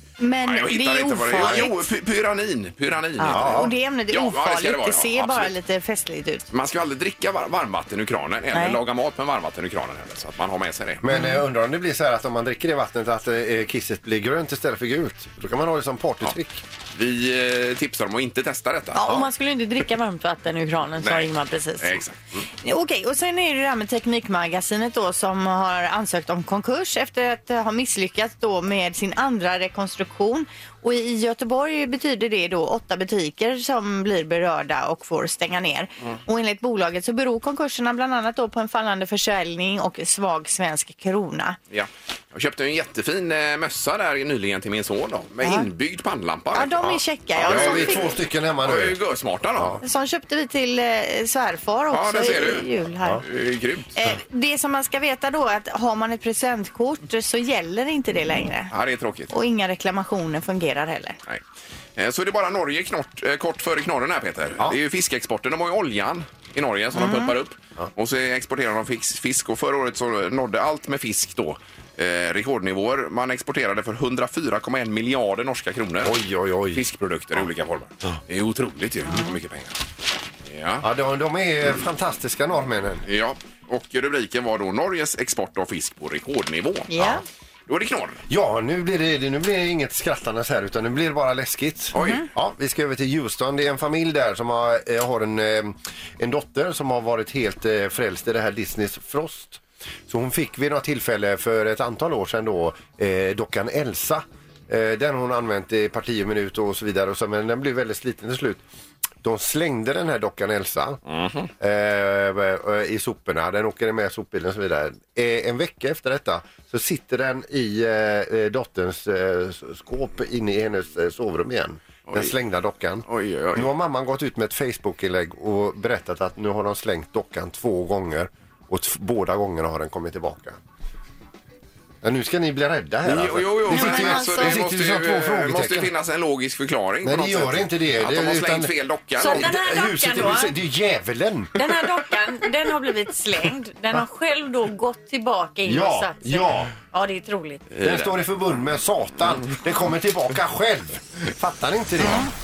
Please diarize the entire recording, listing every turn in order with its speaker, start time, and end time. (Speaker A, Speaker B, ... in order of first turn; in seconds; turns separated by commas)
Speaker A: 0.2-1.8, Speaker B: 0.5-5.5, Speaker A: 3.2-6.5, Speaker C: 3.3-3.7, Speaker B: 6.5-11.0, Speaker A: 8.5-8.8, Speaker C: 11.0-16.6, Speaker A: 11.1-11.4, Speaker B: 16.9-19.2, Speaker A: 18.9-22.0, Speaker B: 21.0-22.1, Speaker A: 22.6-41.6, Speaker B: 41.7-49.8, Speaker A: 45.4-45.7, Speaker A: 46.5-48.1, Speaker C: 47.4-49.0, Speaker C: 49.6-49.8, Speaker A: 49.8-53.2, Speaker B: 51.9-52.7, Speaker B: 53.2-53.9, Speaker A: 54.0-58.7, Speaker B: 58.7-59.3, Speaker A: 59.3-61.2, Speaker B: 62.0-76.2, Speaker A: 66.9-67.3, Speaker C: 76.0-76.8, Speaker B: 76.7-79.8, Speaker B: 80.5-80.8, Speaker C: 80.8-83.0, Speaker B: 83.1-87.1, Speaker A: 86.9-87.2, Speaker B: 87.7-88.2, Speaker C: 88.3-108.6, Speaker B: 92.0-92.2, Speaker A: 92.0-92.2, Speaker C: 109.2-111.0, Speaker B: 111.1-111.5, Speaker C: 111.6-130.6, Speaker B: 122.1-122.3, Speaker B: 123.1-123.7, Speaker C: 132.0-135.9, Speaker B: 133.0-139.5, Speaker A: 133.7-134.6, Speaker C: 137.0-138.7, Speaker A: 139.2-140.5, Speaker C: 139.2-141.5, Speaker A: 141.5-147.6, Speaker C: 145.6-146.7, Speaker B: 147.7-148.2, Speaker C: 147.8-152.3, Speaker A: 152.0-152.3